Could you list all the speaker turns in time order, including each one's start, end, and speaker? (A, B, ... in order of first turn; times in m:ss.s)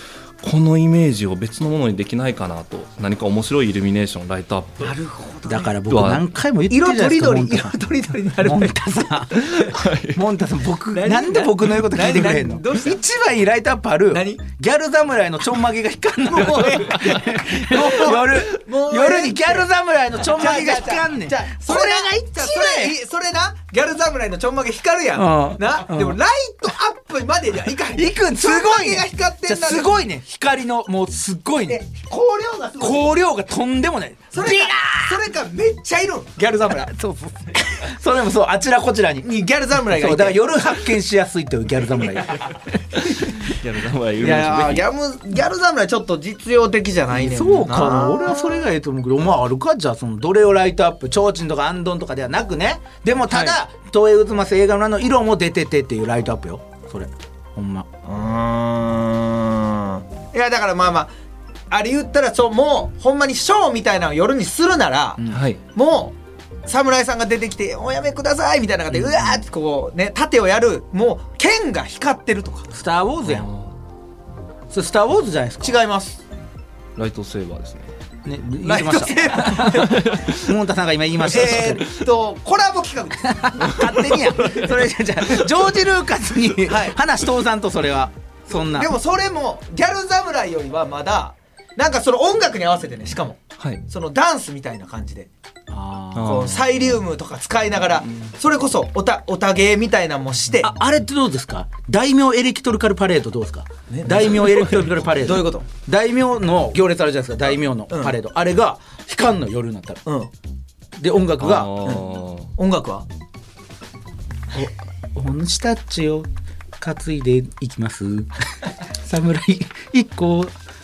0:00.4-0:04.9 A
0:04.8-0:05.7 B
0:05.5-0:07.8 C
0:05.9-0:06.3 A
0:06.7-0:08.8 B
0:08.4-0:23.0 C
0:09.5-0:10.2 A
0:10.9-0:13.0 B
0:14.1-0:14.4 B
0:16.3-0:19.7 B
0:20.2-0:29.9 B
0:25.2-0:26.2 C
0:27.9-0:31.8 C
0:31.7-0:33.1 B
0:32.8-0:35.2 C
0:34.3-0:36.9 B
0:36.8-0:39.3 C
0:39.2-0:40.5 B
0:39.8-0:42.6 C
0:43.3-0:44.9 A
0:44.2-0:48.5 B
0:47.1-0:57.9 C
0:58.0-1:01.1 B
1:01.7-1:05.2 B
1:05.3-1:05.6 A
1:05.7-1:12.7 B
1:08.9-1:09.3 C
1:12.7-1:13.5 C
1:13.2-1:13.7 A
1:14.7-1:15.8 C
1:15.6-1:16.2 B
1:17.0-1:17.9 A
1:18.2-1:21.8 C
1:18.6-1:20.2 B
1:19.9-1:20.4 A
1:21.3-1:24.2 B
1:23.2-1:28.9 C
1:26.7-1:27.0 B
1:28.6-1:35.3 B
1:35.7-1:36.4 C
1:36.2-1:36.8 A
1:36.2-1:40.7 B
1:40.6-1:50.0 C
1:43.9-1:45.7 B
1:47.9-1:48.2 B
1:50.1-1:50.3 B
1:51.0-1:51.9 C
1:51.4-1:52.5 A
1:51.8-1:53.1 B
1:54.5-1:56.3 C
1:56.8-2:00.6 C